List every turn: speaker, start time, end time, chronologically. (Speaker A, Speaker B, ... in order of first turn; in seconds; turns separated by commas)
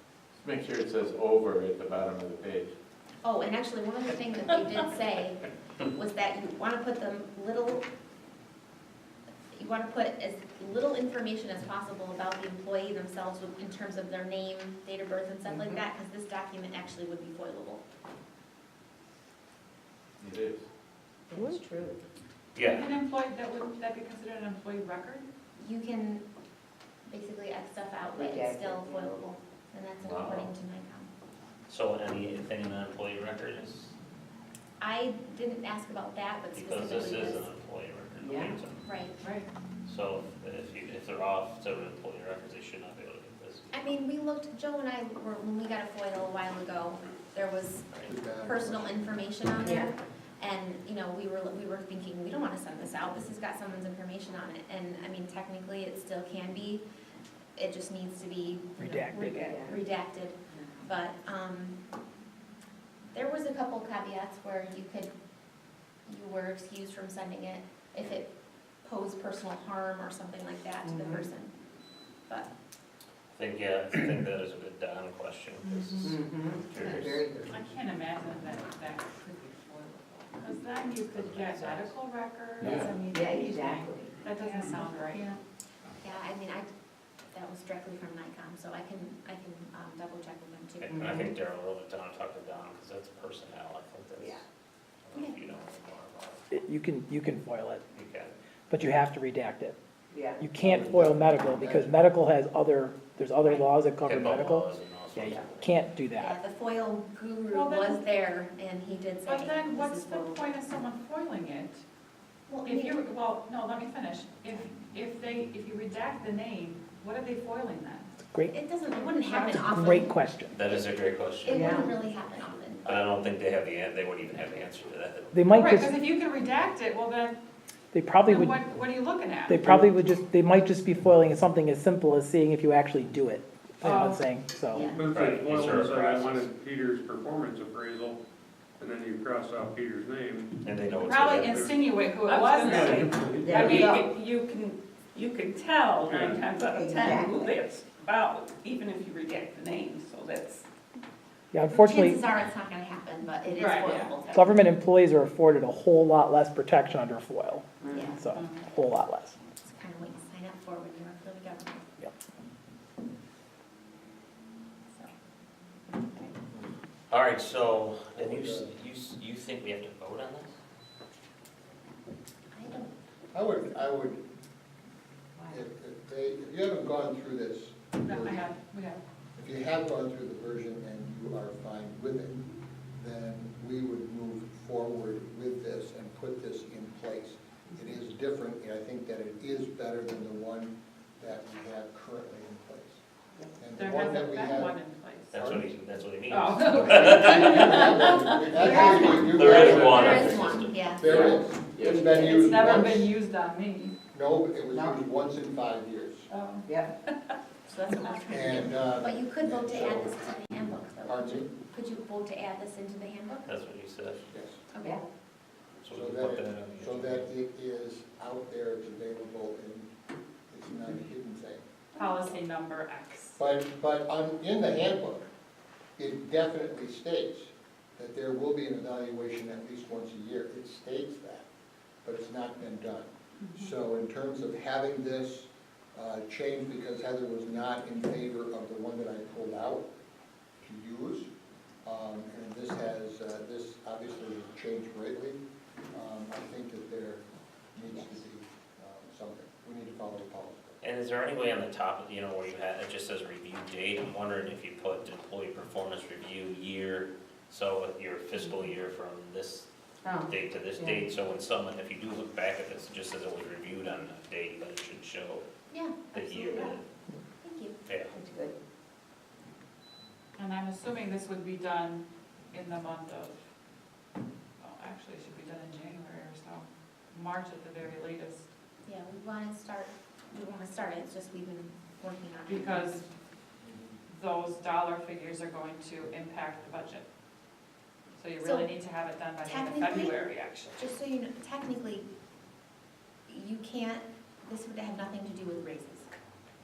Speaker A: 0.3-2.7, Speaker B: 3.2-7.8, Speaker B: 9.5-17.8, Speaker A: 20.2-20.6, Speaker C: 21.3-22.0, Speaker D: 22.6-22.9, Speaker E: 22.6-25.3, Speaker B: 25.6-26.3, Speaker B: 27.1-31.1, Speaker C: 28.1-29.2, Speaker D: 30.0-30.5, Speaker D: 31.7-33.9, Speaker B: 34.8-37.5, Speaker D: 36.5-38.9, Speaker C: 38.2-38.6, Speaker B: 38.8-39.2, Speaker E: 39.2-39.5, Speaker D: 39.9-43.8, Speaker B: 43.7-47.9, Speaker F: 48.0-48.9, Speaker B: 48.4-56.8, Speaker C: 49.6-49.9, Speaker B: 57.6-61.8, Speaker G: 58.8-59.6, Speaker C: 59.4-59.8, Speaker B: 63.1-65.1, Speaker B: 66.1-68.3, Speaker B: 68.8-71.5, Speaker C: 70.8-71.2, Speaker D: 73.3-77.2, Speaker E: 75.7-76.1, Speaker C: 76.0-77.6, Speaker E: 77.5-85.4, Speaker D: 80.8-82.0, Speaker A: 82.6-83.0, Speaker C: 82.9-84.2, Speaker H: 84.4-85.2, Speaker B: 86.0-86.7, Speaker B: 87.3-91.0, Speaker D: 90.8-94.4, Speaker C: 91.0-91.2, Speaker D: 95.1-96.5, Speaker B: 95.1-95.6, Speaker G: 96.5-97.8, Speaker D: 97.9-98.3, Speaker G: 98.7-99.8, Speaker C: 100.1-100.4, Speaker G: 100.4-106.3, Speaker F: 100.6-101.9, Speaker D: 104.0-105.8, Speaker B: 106.2-110.4, Speaker E: 107.5-108.1, Speaker E: 109.2-111.8, Speaker B: 112.5-113.0, Speaker E: 112.6-118.1, Speaker G: 118.3-118.5, Speaker B: 118.5-120.2, Speaker G: 119.3-120.6, Speaker D: 120.5-121.8, Speaker B: 121.5-123.0, Speaker C: 121.5-121.9, Speaker D: 122.8-125.5, Speaker G: 125.3-126.0, Speaker E: 125.5-127.4, Speaker G: 127.9-128.6, Speaker E: 128.2-129.6, Speaker G: 129.5-134.9, Speaker E: 133.8-134.2, Speaker C: 134.7-135.0, Speaker I: 134.9-138.2, Speaker D: 135.0-136.5, Speaker I: 138.8-141.8, Speaker D: 140.6-141.7, Speaker E: 141.1-142.8, Speaker H: 142.1-150.7, Speaker I: 142.7-143.7, Speaker C: 143.4-144.1, Speaker E: 143.6-144.1, Speaker I: 146.0-146.5, Speaker C: 146.6-147.6, Speaker G: 151.5-152.2, Speaker B: 151.7-154.5, Speaker E: 153.5-154.1, Speaker G: 154.3-159.3, Speaker B: 157.9-158.2, Speaker E: 158.2-158.7, Speaker B: 159.6-161.8, Speaker D: 167.1-170.5, Speaker F: 168.2-168.7, Speaker B: 172.5-172.9, Speaker F: 173.3-174.2, Speaker F: 175.5-178.5, Speaker E: 178.0-179.0, Speaker F: 179.4-193.0, Speaker F: 193.6-194.8, Speaker E: 193.8-195.3, Speaker D: 195.3-198.0, Speaker F: 195.3-195.7, Speaker E: 196.3-199.1, Speaker F: 196.7-203.2, Speaker C: 198.5-200.2, Speaker B: 198.7-201.4, Speaker D: 199.2-200.9, Speaker I: 199.8-200.4, Speaker A: 201.0-201.3, Speaker C: 201.8-202.8, Speaker E: 202.3-203.9, Speaker F: 204.1-206.3, Speaker C: 204.7-205.0, Speaker E: 206.3-206.7, Speaker B: 207.7-213.5, Speaker F: 208.3-210.1, Speaker F: 211.1-211.5, Speaker D: 213.5-214.3, Speaker F: 214.3-214.7, Speaker B: 214.7-215.0, Speaker D: 215.8-217.3, Speaker F: 215.9-219.9, Speaker F: 220.5-221.7, Speaker E: 222.0-223.4, Speaker F: 223.4-225.3, Speaker F: 226.0-231.5, Speaker F: 232.0-239.8, Speaker E: 233.4-233.7, Speaker F: 240.6-241.3, Speaker F: 241.8-245.4, Speaker F: 245.9-247.2, Speaker F: 247.8-250.8, Speaker D: 250.8-259.7, Speaker C: 260.0-261.0, Speaker D: 260.2-265.4, Speaker B: 265.7-266.8, Speaker D: 266.1-266.8, Speaker B: 267.4-267.8, Speaker D: 267.9-268.1, Speaker C: 268.1-268.6, Speaker E: 270.4-273.4, Speaker E: 274.6-278.5, Speaker B: 278.9-283.0, Speaker E: 282.4-283.1, Speaker F: 283.6-284.0, Speaker E: 284.1-287.0, Speaker E: 288.2-290.8, Speaker B: 288.4-288.7, Speaker B: 289.4-290.2, Speaker B: 290.7-292.1, Speaker B: 293.3-296.1